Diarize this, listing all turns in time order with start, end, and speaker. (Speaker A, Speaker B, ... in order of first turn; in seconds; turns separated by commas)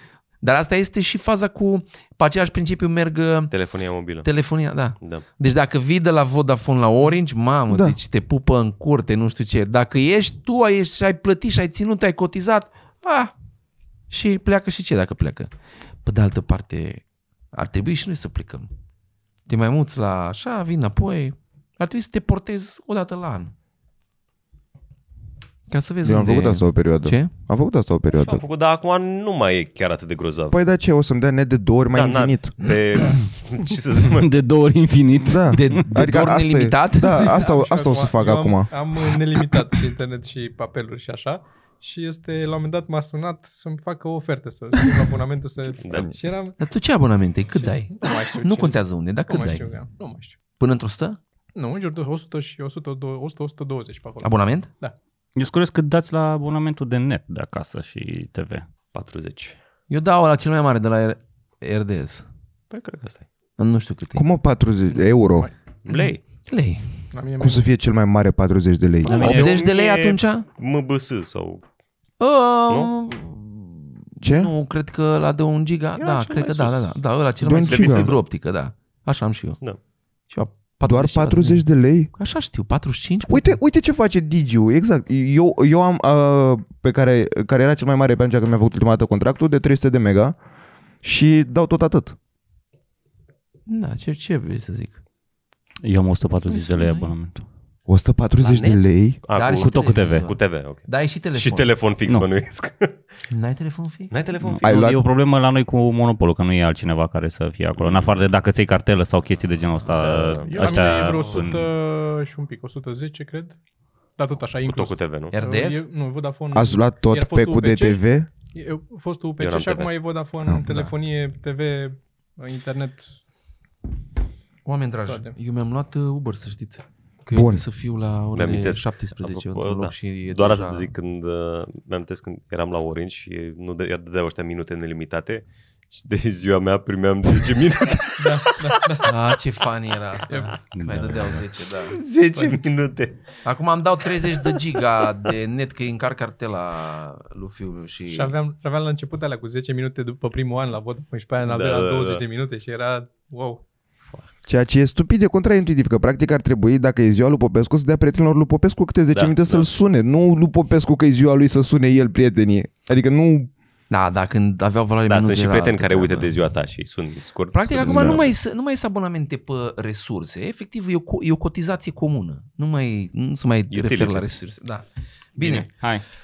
Speaker A: 0.4-3.5, Speaker B: 3.5-4.3, Speaker A: 4.2-13.3, Speaker B: 5.0-5.2, Speaker C: 7.7-8.0, Speaker A: 14.1-15.5, Speaker A: 16.0-18.7, Speaker A: 19.5-23.5, Speaker A: 25.7-27.3, Speaker C: 26.0-28.4, Speaker B: 28.1-30.6, Speaker C: 30.5-32.5, Speaker B: 31.9-34.3, Speaker D: 34.0-35.9, Speaker C: 35.2-38.7, Speaker A: 35.5-37.4, Speaker E: 37.1-46.6, Speaker B: 45.8-46.1, Speaker A: 46.6-49.7, Speaker E: 47.5-50.4, Speaker A: 50.6-51.2, Speaker E: 51.5-55.0, Speaker A: 54.2-54.7, Speaker D: 55.4-58.7, Speaker B: 58.9-59.6, Speaker A: 59.9-62.3, Speaker B: 62.7-63.2, Speaker A: 63.6-64.3, Speaker C: 64.1-65.5, Speaker B: 65.8-66.2, Speaker A: 66.5-67.0, Speaker E: 67.1-67.7, Speaker C: 67.4-69.2, Speaker D: 69.0-69.6, Speaker B: 69.0-71.7, Speaker A: 69.1-70.5, Speaker A: 72.2-79.6, Speaker C: 74.2-74.5, Speaker B: 76.0-77.0, Speaker C: 77.4-78.2, Speaker B: 77.6-78.2, Speaker A: 80.3-83.6, Speaker C: 80.9-82.1, Speaker C: 83.3-90.4, Speaker C: 91.0-92.2, Speaker A: 93.7-95.0, Speaker D: 95.8-97.5, Speaker A: 96.5-97.1, Speaker C: 97.9-99.2, Speaker B: 98.4-103.0, Speaker A: 99.3-101.7, Speaker D: 99.5-100.3, Speaker A: 103.3-104.1, Speaker B: 104.1-104.9, Speaker D: 104.4-111.7, Speaker C: 104.6-105.0, Speaker B: 107.8-108.3, Speaker B: 109.9-111.5, Speaker E: 110.4-113.6, Speaker E: 114.2-123.2, Speaker B: 114.6-115.3, Speaker A: 115.3-115.8, Speaker C: 116.5-118.3, Speaker B: 119.4-119.9, Speaker C: 120.5-120.9, Speaker A: 124.7-130.9, Speaker E: 125.1-125.3, Speaker C: 127.3-127.6, Speaker B: 128.3-139.1, Speaker E: 138.2-139.1, Speaker A: 139.1-142.1, Speaker D: 140.7-141.4, Speaker B: 141.9-143.2, Speaker A: 143.4-148.3, Speaker B: 144.4-144.7, Speaker E: 148.1-153.6, Speaker B: 151.4-152.2, Speaker C: 154.5-163.5, Speaker B: 159.1-159.7, Speaker A: 163.9-166.3, Speaker B: 165.1-168.3, Speaker A: 167.5-175.8, Speaker C: 167.8-168.2, Speaker B: 173.7-174.2, Speaker D: 175.4-176.0